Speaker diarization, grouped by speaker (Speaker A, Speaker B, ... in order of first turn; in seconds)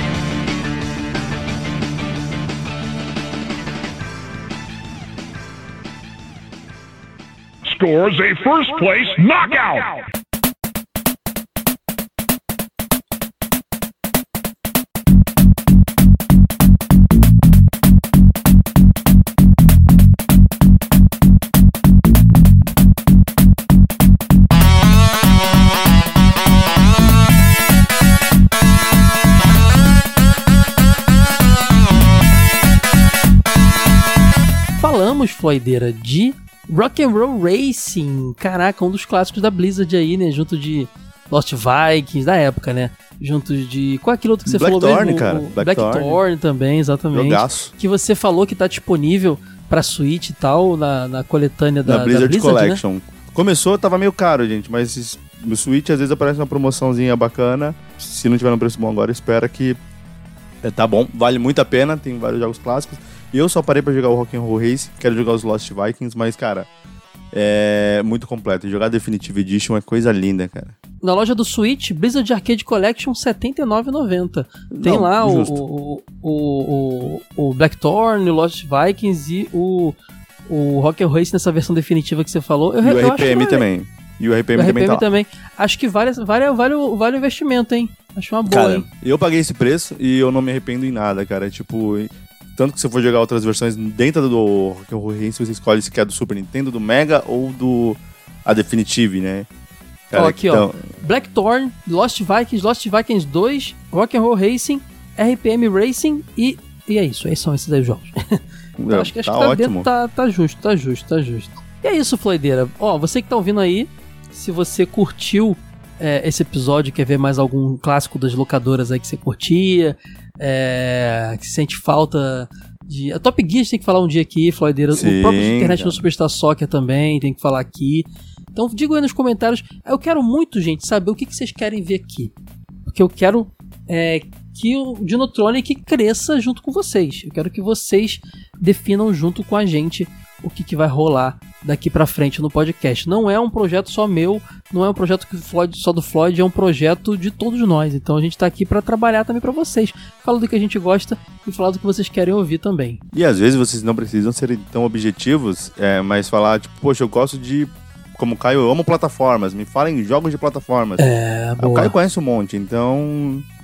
Speaker A: 7.7-10.1
Speaker B: 34.8-52.8, 71.0-80.0, 80.5-83.6, 84.5-88.8, 100.1-132.3, 132.9-153.0, 161.0-161.9
Speaker C: 44.5-46.2, 47.1-47.7, 51.8-59.8, 60.6-66.7, 67.3-70.8, 74.7-75.5, 82.8-85.0, 88.5-99.5, 100.1-100.8, 108.8-109.9, 124.9-126.0, 153.1-161.0, 161.6-163.4